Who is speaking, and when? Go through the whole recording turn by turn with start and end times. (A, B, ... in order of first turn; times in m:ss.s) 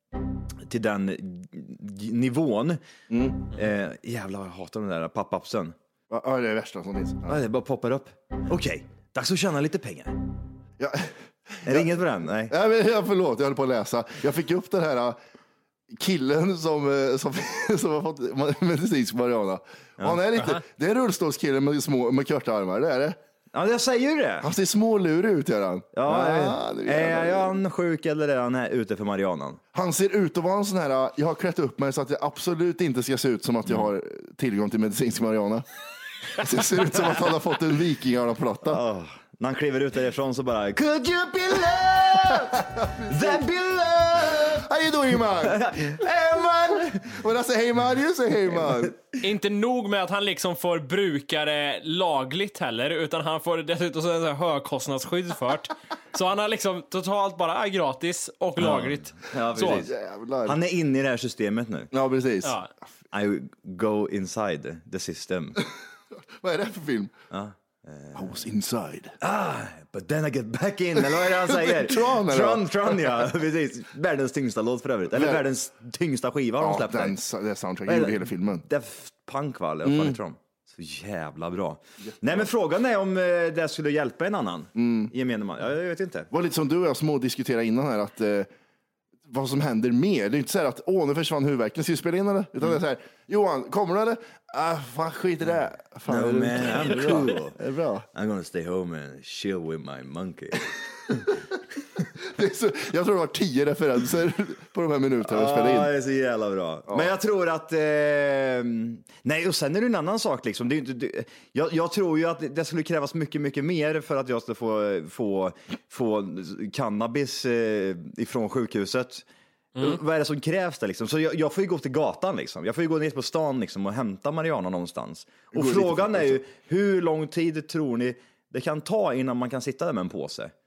0:00.6-0:02.8 A
0:03.1-0:03.4 B
0:03.5-0:05.8 A
0:06.1-0:07.4 B
0:07.3-0:10.2 A
0:10.8-0:15.2 B
0:11.6-0:12.5 A
0:15.9-0:23.2 B
0:23.5-0:24.5 A
0:24.4-0:27.6 B
0:25.9-0:29.6 A
0:29.7-0:35.6 B
0:36.4-0:38.8 B
0:38.6-0:44.6 A
0:42.8-0:43.4 B
0:44.3-0:49.0 B
0:45.4-0:47.1 A
0:49.2-0:59.8 C
0:58.6-0:59.9 A
0:59.7-1:00.6 B
1:00.4-1:01.9 A
1:01.9-1:02.6 B
1:02.4-1:02.7 C
1:03.1-1:05.6 A
1:06.4-1:07.1 B
1:07.3-1:08.3 A
1:08.2-1:09.2 B
1:09.2-1:17.2 A
1:11.0-1:13.2 B
1:15.1-1:15.4 B
1:16.6-1:18.6 B
1:17.9-1:26.3 A
1:19.8-1:20.2 B
1:22.0-1:22.5 B
1:24.8-1:25.1 B
1:26.3-1:28.5 B
1:29.3-1:38.1 B
1:36.1-1:37.6 A
1:38.1-1:41.2 A
1:42.2-1:45.9 B
1:45.2-1:59.2 A
1:59.8-2:10.5 A
2:05.5-2:06.4 B